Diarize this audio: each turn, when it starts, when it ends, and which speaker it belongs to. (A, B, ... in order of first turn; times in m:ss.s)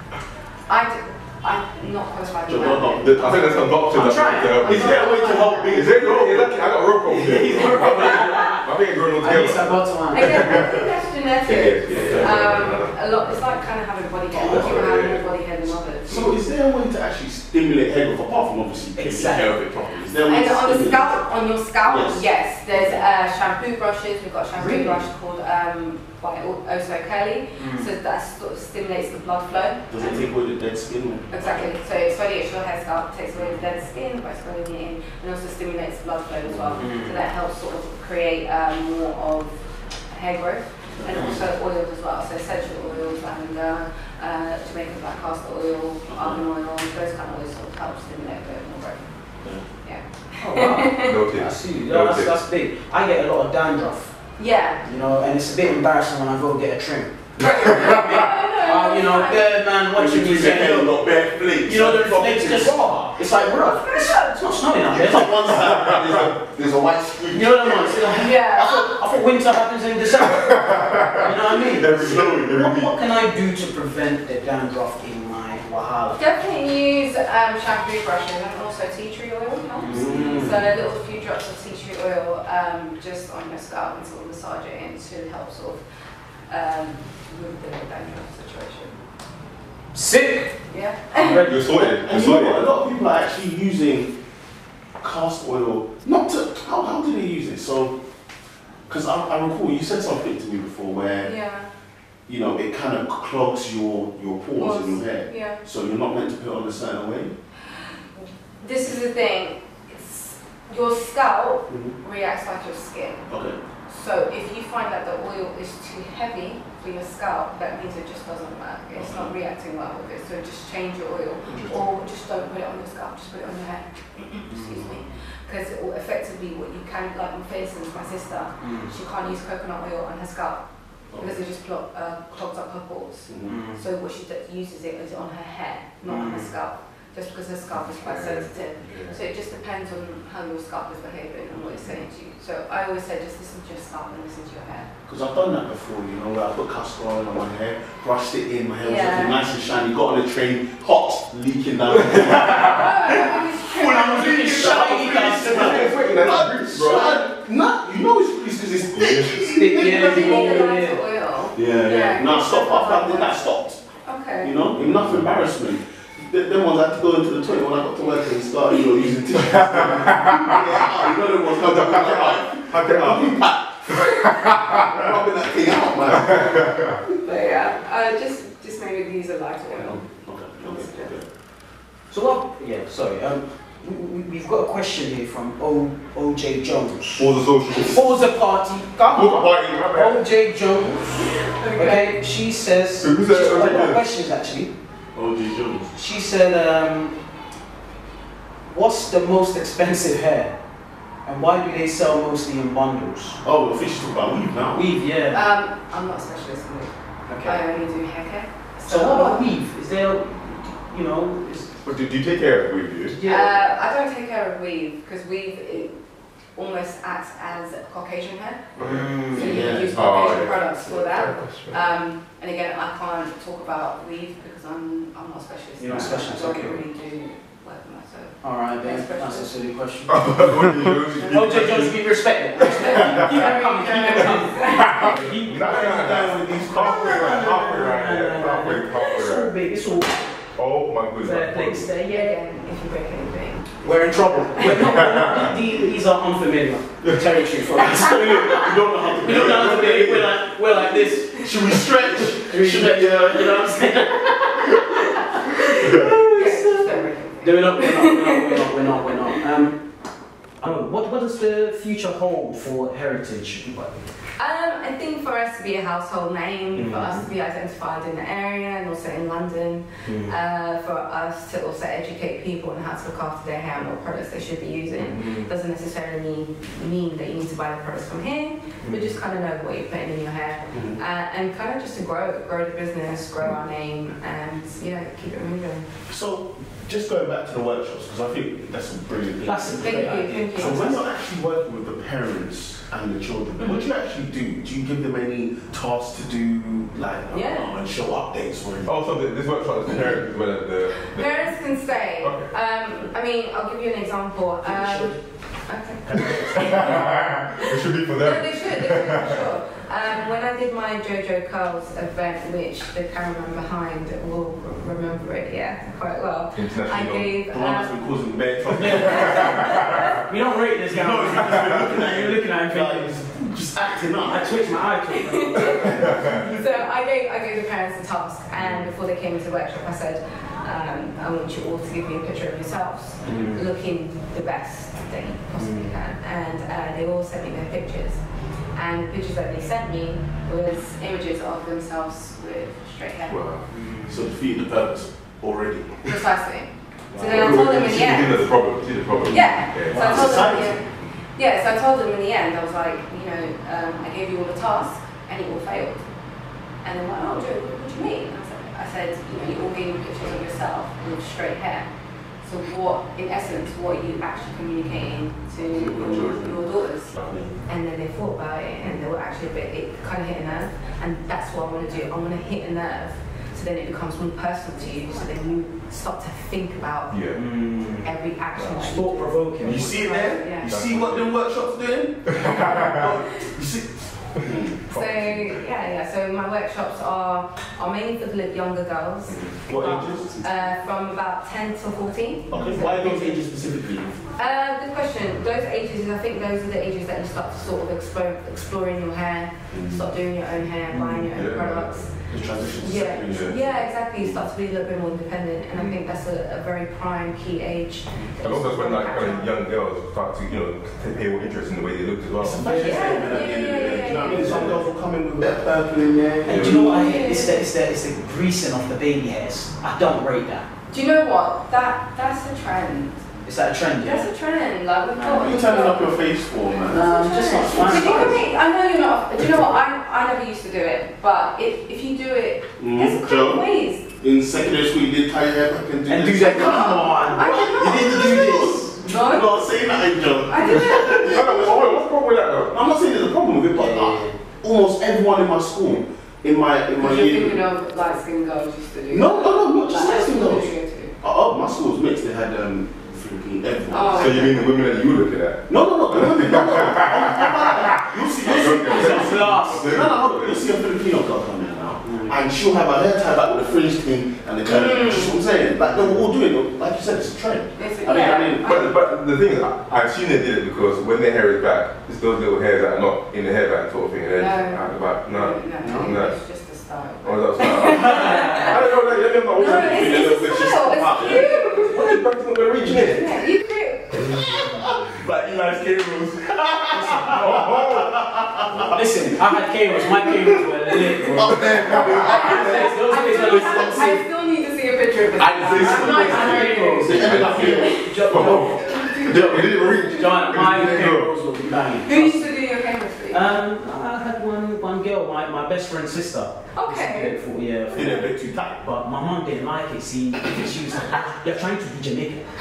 0:00.7-0:03.9 A
0:02.5-0:03.4 B
0:03.0-0:10.8 C
0:03.9-0:04.8 D
0:04.6-0:05.8 A
0:04.6-0:06.5 B
0:07.0-0:10.7 D
0:10.1-0:16.3 A
0:11.4-0:12.9 C
0:11.9-0:12.4 B
0:14.4-0:14.7 B
0:14.4-0:15.2 C
0:16.1-0:21.2 B
0:19.0-0:19.6 D
0:20.2-0:30.0 A
0:21.8-0:23.0 B
0:24.5-0:25.0 D
0:27.6-0:27.9 D
0:29.9-0:31.7 B
0:31.3-0:39.5 A
0:36.4-0:36.8 B
0:36.8-0:37.2 D
0:40.1-0:49.0 A
0:41.0-0:41.3 B
0:41.1-0:41.4 D
0:46.1-0:46.4 B
0:49.8-0:51.2 A
0:50.4-0:54.1 D
0:51.0-0:52.4 C
0:54.4-0:54.8 A
0:54.8-1:01.0 D
0:57.4-0:59.6 A
0:57.4-0:58.0 C
0:59.9-1:03.0 B
1:01.6-1:05.5 D
1:03.3-1:04.6 A
1:04.9-1:08.1 B
1:05.4-1:06.3 C
1:07.3-1:16.2 D
1:08.2-1:08.9 A
1:10.2-1:12.9 C
1:11.9-1:12.4 B
1:16.2-1:25.8 A
1:19.8-1:20.6 D
1:19.9-1:20.6 B
1:26.5-1:28.9 A
1:29.9-1:30.6 D
1:30.7-1:31.5 A
1:31.1-1:31.7 D
1:31.3-1:32.7 C
1:31.6-1:34.1 B
1:35.0-1:38.0 B
1:38.9-1:41.3 B
1:41.2-1:41.7 A
1:42.3-1:47.4 B
1:44.6-1:45.6 A
1:48.2-1:53.3 A
1:51.7-1:51.9 B
1:53.3-1:53.6 B
1:53.9-2:10.6 A
1:59.0-1:59.3 B
2:04.5-2:04.8 D
2:08.6-2:08.9 D
2:11.1-2:11.4 B
2:11.2-2:24.9 A
2:13.3-2:13.6 B
2:13.4-2:13.8 D
2:16.1-2:16.5 D
2:17.9-2:19.2 C
2:25.1-2:40.7 B
2:28.8-2:29.4 A
2:32.0-2:32.6 C
2:32.3-2:35.0 A
2:33.8-2:36.3 D
2:35.2-2:37.2 C
2:39.0-2:39.3 C
2:39.4-2:41.0 D
2:39.8-2:43.4 A
2:41.5-2:43.8 B
2:44.0-2:44.6 A
2:44.4-2:57.0 B
2:44.8-2:45.2 C
2:49.5-2:50.6 C
2:51.5-2:53.4 C
2:54.0-2:55.1 C
2:56.1-2:57.0 C
2:57.2-3:00.0 A
2:59.8-3:01.2 B
3:00.6-3:01.1 A
3:02.1-3:14.7 D
3:07.2-3:08.1 C
3:09.1-3:10.2 C
3:11.2-3:12.2 A
3:13.0-3:14.0 C
3:15.1-3:15.9 B
3:15.9-3:17.1 D
3:18.7-3:20.5 D
3:21.2-3:23.4 D
3:23.4-3:24.9 B
3:24.7-3:25.5 D
3:25.3-3:26.9 A
3:27.3-3:27.6 D
3:27.4-3:29.5 A
3:28.9-3:31.7 D
3:31.8-3:33.2 C
3:33.1-3:33.5 D
3:33.2-3:35.9 A
3:36.5-3:49.5 A
3:38.8-3:41.8 C
3:38.8-3:39.7 D
3:39.3-3:40.4 B
3:45.8-3:46.8 D
3:48.4-3:50.7 D
3:50.1-3:52.0 C
3:51.1-3:51.7 A
3:51.3-4:00.2 D
3:52.6-3:55.1 A
3:52.9-3:53.4 C
3:54.6-3:59.5 C
3:55.6-3:57.5 B
4:00.6-4:01.9 C
4:01.2-4:02.4 D
4:02.0-4:05.2 A
4:03.8-4:19.8 D
4:04.6-4:05.5 C
4:07.7-4:10.4 B
4:09.2-4:10.3 C
4:11.3-4:14.7 B
4:15.4-4:19.2 A
4:15.8-4:16.1 C
4:20.6-4:24.0 D
4:24.4-4:45.8 A
4:26.8-4:27.2 D
4:26.8-4:27.1 B
4:30.0-4:30.4 D
4:35.0-4:35.5 C
4:40.7-4:41.0 B
4:46.1-4:58.9 B
4:49.4-4:51.0 D
4:49.8-4:51.0 A
4:53.6-4:53.9 A
4:57.3-4:57.7 A
4:58.8-5:01.3 C
5:01.1-5:07.0 A
5:02.2-5:02.5 C
5:04.6-5:05.2 D
5:06.1-5:07.0 D
5:06.1-5:06.8 B
5:06.1-5:09.5 C
5:07.6-5:17.9 A
5:16.5-5:17.3 C
5:17.5-5:19.7 B
5:18.7-5:23.1 D
5:18.9-5:20.2 A
5:19.2-5:20.1 C
5:20.9-5:24.8 B
5:24.2-5:26.5 D
5:25.1-5:38.2 A
5:25.9-5:26.4 C
5:33.2-5:33.7 D
5:35.6-5:35.9 D
5:38.8-5:43.4 A
5:43.3-5:43.6 C
5:43.7-5:44.3 D
5:44.1-5:46.1 B
5:46.0-5:48.4 A
5:47.1-5:47.6 D
5:47.2-5:50.5 C
5:49.3-5:50.8 A
5:49.9-5:50.8 B
5:49.9-5:50.2 D
5:51.3-5:56.0 A
5:56.8-6:01.9 A
6:02.4-6:17.2 A
6:05.7-6:06.6 C
6:05.8-6:06.6 B
6:07.2-6:07.5 B
6:17.1-6:17.4 C
6:17.3-6:19.9 D
6:18.0-6:20.7 A
6:19.6-6:24.8 B
6:20.6-6:21.2 C
6:22.3-6:23.1 C
6:24.9-6:33.4 A
6:24.9-6:25.5 C
6:29.6-6:30.4 B
6:32.5-6:34.2 B
6:34.4-6:42.1 A
6:39.7-6:40.1 B
6:40.9-6:41.3 D
6:41.2-6:42.0 C
6:42.3-6:44.4 B
6:42.8-6:49.5 A
6:48.4-6:52.8 C
6:52.4-6:56.8 B
6:52.6-6:53.2 D
6:52.8-6:54.8 A
6:56.4-7:00.7 D
6:56.5-6:56.8 C
6:56.6-6:57.6 A
7:00.9-7:03.2 A
7:03.4-7:04.3 D
7:04.0-7:06.3 A
7:05.2-7:08.5 B
7:06.9-7:08.4 D
7:06.9-7:14.1 A
7:09.4-7:09.7 B
7:12.8-7:13.7 B
7:14.2-7:22.0 B
7:16.1-7:19.0 D
7:17.2-7:18.4 A
7:19.0-7:19.6 A
7:20.5-7:21.5 A
7:20.9-7:22.8 C
7:22.7-7:27.6 B
7:23.7-7:24.4 D
7:27.0-7:31.2 A
7:29.1-7:34.6 B
7:33.9-7:34.7 A
7:34.1-7:40.6 C
7:35.7-7:48.9 B
7:38.9-7:40.0 D
7:42.0-7:42.4 D
7:44.7-7:45.3 A
7:47.8-7:48.9 A
7:48.6-7:56.3 C
7:54.4-8:02.2 A
7:55.8-7:56.2 B
7:57.2-8:03.4 C
7:57.8-7:58.8 D
7:59.6-8:01.5 B
8:02.8-8:04.3 A
8:04.2-8:05.0 D
8:04.2-8:09.0 B
8:06.9-8:07.6 D
8:07.3-8:08.8 C
8:08.8-8:14.1 D
8:10.1-8:14.2 B
8:11.4-8:12.5 C
8:12.2-8:20.8 A
8:15.4-8:22.6 D
8:15.5-8:18.0 B
8:16.3-8:21.3 C
8:22.0-8:23.5 A
8:23.3-8:28.2 D
8:26.7-8:27.4 A
8:27.9-8:28.8 B
8:28.8-8:32.4 D